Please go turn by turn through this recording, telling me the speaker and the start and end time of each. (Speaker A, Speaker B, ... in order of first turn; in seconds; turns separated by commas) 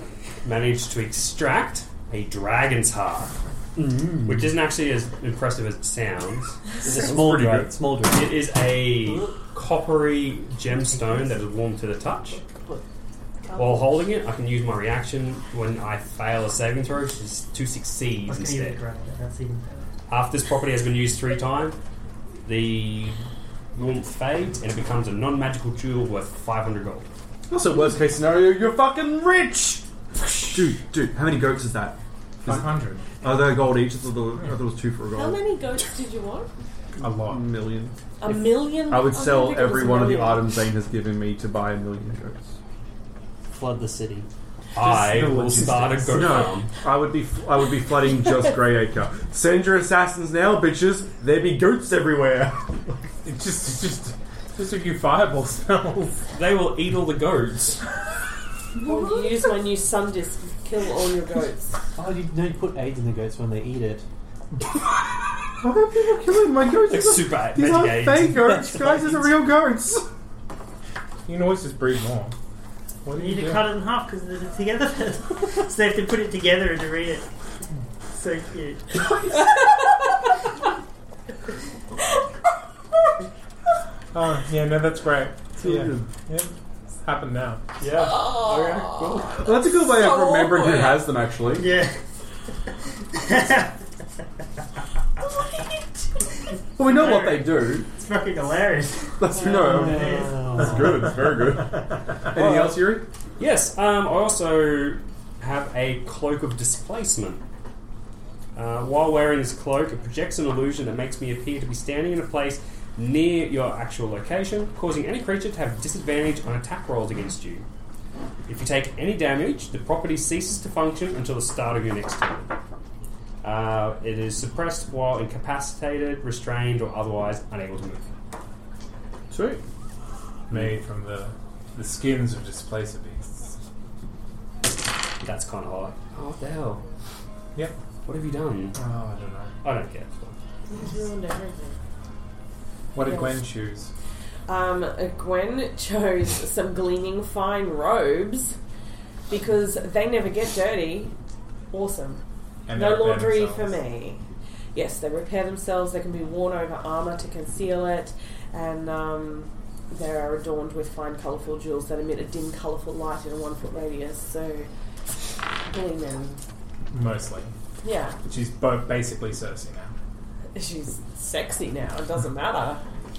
Speaker A: 0.4-3.4, Speaker B: 3.8-4.5, Speaker A: 4.3-6.6, Speaker B: 6.8-8.4, Speaker C: 6.8-7.7, Speaker A: 8.1-12.4, Speaker B: 9.0-9.3, Speaker D: 10.9-11.4, Speaker E: 13.5-13.9, Speaker A: 13.6-18.8, Speaker D: 18.3-19.8, Speaker A: 20.1-21.8, Speaker A: 22.4-23.2, Speaker A: 23.7-27.1, Speaker C: 27.5-32.7, Speaker F: 32.5-33.1, Speaker C: 33.2-35.4, Speaker E: 35.1-36.5, Speaker C: 37.0-38.0, Speaker F: 37.0-37.5, Speaker E: 38.2-40.4, Speaker C: 38.8-42.5, Speaker B: 43.5-44.3, Speaker A: 44.7-46.7, Speaker F: 44.8-46.5, Speaker C: 46.1-53.0, Speaker F: 53.2-56.2, Speaker A: 56.3-57.8, Speaker E: 58.8-61.8, Speaker B: 62.0-64.1, Speaker C: 65.6-70.1, Speaker A: 66.9-68.6, Speaker B: 68.6-69.2, Speaker F: 71.3-72.3, Speaker F: 73.0-73.7, Speaker D: 73.1-77.3, Speaker D: 78.1-79.0, Speaker F: 84.1-87.6, Speaker C: 85.6-86.1, Speaker A: 87.8-89.4, Speaker E: 88.0-91.1, Speaker C: 89.4-91.7, Speaker D: 91.5-92.0, Speaker D: 93.1-93.8, Speaker C: 96.8-97.9, Speaker D: 96.8-100.9, Speaker C: 99.2-103.1, Speaker B: 99.5-101.0, Speaker A: 103.4-107.4, Speaker A: 108.5-117.7, Speaker A: 118.5-122.5, Speaker A: 123.4-128.1, Speaker C: 129.3-129.6, Speaker F: 130.5-133.6, Speaker A: 135.2-136.8, Speaker A: 138.1-138.8, Speaker F: 138.8-139.6, Speaker A: 139.6-140.4, Speaker E: 140.7-141.8, Speaker F: 142.9-143.9, Speaker E: 143.0-143.4, Speaker E: 144.5-148.6, Speaker E: 149.3-151.1, Speaker E: 151.7-152.2, Speaker F: 152.7-153.8, Speaker E: 152.7-154.2, Speaker E: 154.8-164.7, Speaker E: 165.7-166.4, Speaker F: 166.9-167.5, Speaker E: 167.8-168.2, Speaker F: 168.3-169.9, Speaker E: 170.5-172.8